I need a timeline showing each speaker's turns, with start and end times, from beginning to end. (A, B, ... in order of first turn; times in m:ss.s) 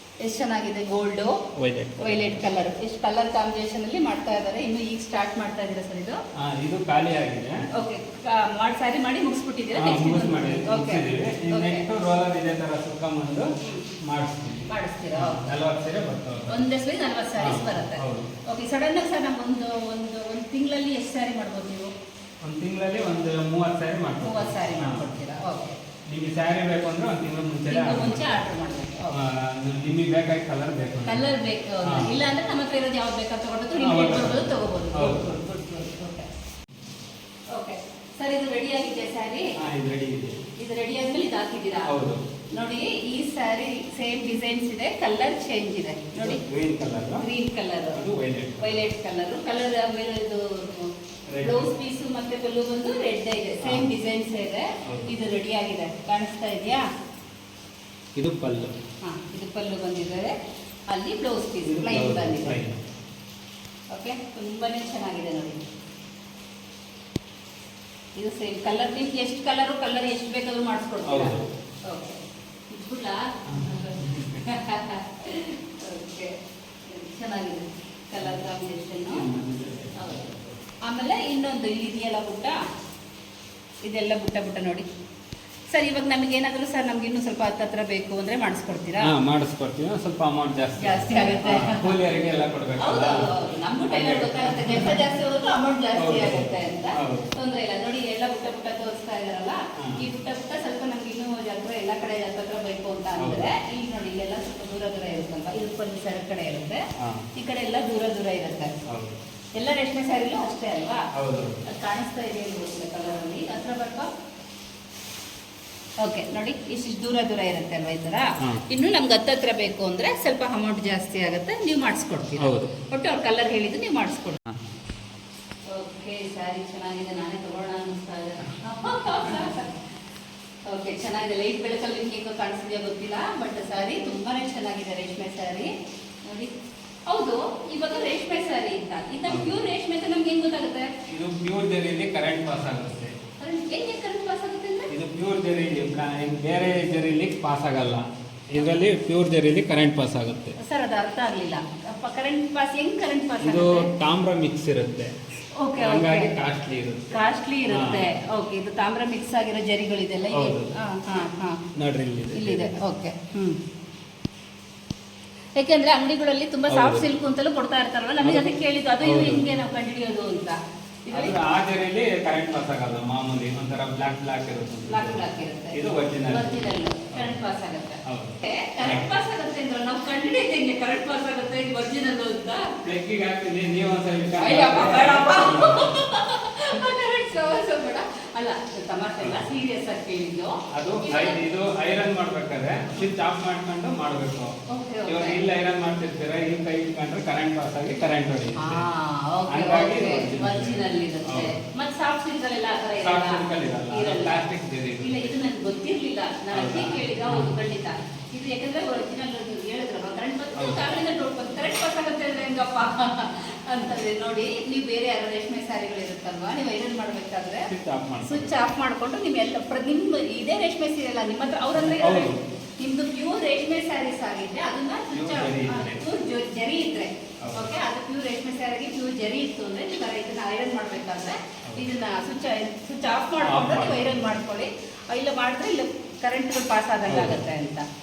0:00.2-0:01.4 A
0:01.6-0:02.4 B
0:02.0-0:06.2 A
0:06.4-0:07.6 B
0:07.7-0:11.8 A
0:09.8-0:13.5 B
0:13.6-0:14.0 A
0:14.0-0:16.6 B
0:14.7-0:15.5 A
0:16.5-0:21.9 A
0:17.4-0:18.3 B
0:22.4-0:25.1 B
0:24.2-0:25.8 A
0:26.1-0:28.4 B
0:27.7-0:29.3 A
0:29.1-0:31.2 B
0:31.0-0:36.3 A
0:31.8-0:32.2 B
0:33.7-0:35.3 B
0:37.5-0:39.5 A
0:39.6-0:40.4 B
0:40.6-0:42.0 A
0:41.9-0:42.2 B
0:42.6-0:46.4 A
0:46.2-0:47.2 B
0:47.2-0:48.0 A
0:47.9-0:48.8 B
0:48.6-0:56.9 A
0:51.3-0:51.7 B
0:53.6-0:53.9 B
0:54.8-0:55.1 B
0:58.2-0:58.8 B
0:59.0-1:00.3 A
1:00.9-1:02.6 A
1:01.6-1:02.8 B
1:03.9-1:05.6 A
1:08.2-1:16.3 A
1:11.0-1:11.4 B
1:13.5-1:14.5 B
1:16.8-1:19.2 A
1:19.1-1:20.6 B
1:20.0-1:20.2 A
1:20.8-1:22.6 A
1:23.8-1:24.8 A
1:25.7-1:29.1 A
1:29.0-1:33.3 B
1:30.8-1:31.9 A
1:32.8-1:46.8 A
1:33.9-1:35.0 B
1:36.0-1:37.3 B
1:43.2-1:43.5 B
1:47.0-1:47.3 B
1:47.4-1:48.8 A
1:48.9-1:49.2 B
1:49.6-1:51.1 A
1:51.1-1:51.6 B
1:51.6-1:54.1 A
1:56.0-2:04.4 A
2:02.4-2:02.7 B
2:04.5-2:04.7 B
2:05.7-2:09.8 A
2:10.7-2:15.7 A
2:16.2-2:16.5 A
2:17.1-2:20.9 A
2:19.3-2:19.6 B
2:21.1-2:23.2 B
2:23.4-2:24.9 A
2:24.9-2:30.6 B
2:30.6-2:33.9 A
2:33.4-2:35.1 B
2:35.6-2:36.3 A
2:35.8-2:38.1 B
2:37.1-2:41.6 A
2:40.3-2:40.7 B
2:41.8-2:42.8 B
2:42.3-2:43.6 A
2:45.6-2:51.4 A
2:46.7-2:47.1 B
2:48.2-2:48.5 B
2:49.0-2:49.4 B
2:51.1-2:57.4 B
2:54.9-3:02.7 A
2:58.0-2:59.1 B
3:02.8-3:06.0 B
3:04.4-3:11.4 A
3:09.2-3:09.5 B
3:10.7-3:14.5 B
3:14.7-3:15.4 A
3:15.0-3:18.9 B
3:18.6-3:24.4 A
3:19.5-3:21.6 B
3:23.0-3:25.3 B
3:25.0-3:37.7 A
3:26.5-3:27.5 B
3:30.5-3:30.9 B
3:37.7-3:38.5 B
3:38.2-3:57.8 A
3:41.7-3:42.4 B
3:45.1-3:46.1 B
3:47.4-3:47.7 B
3:53.4-3:54.2 B
3:57.1-3:57.4 B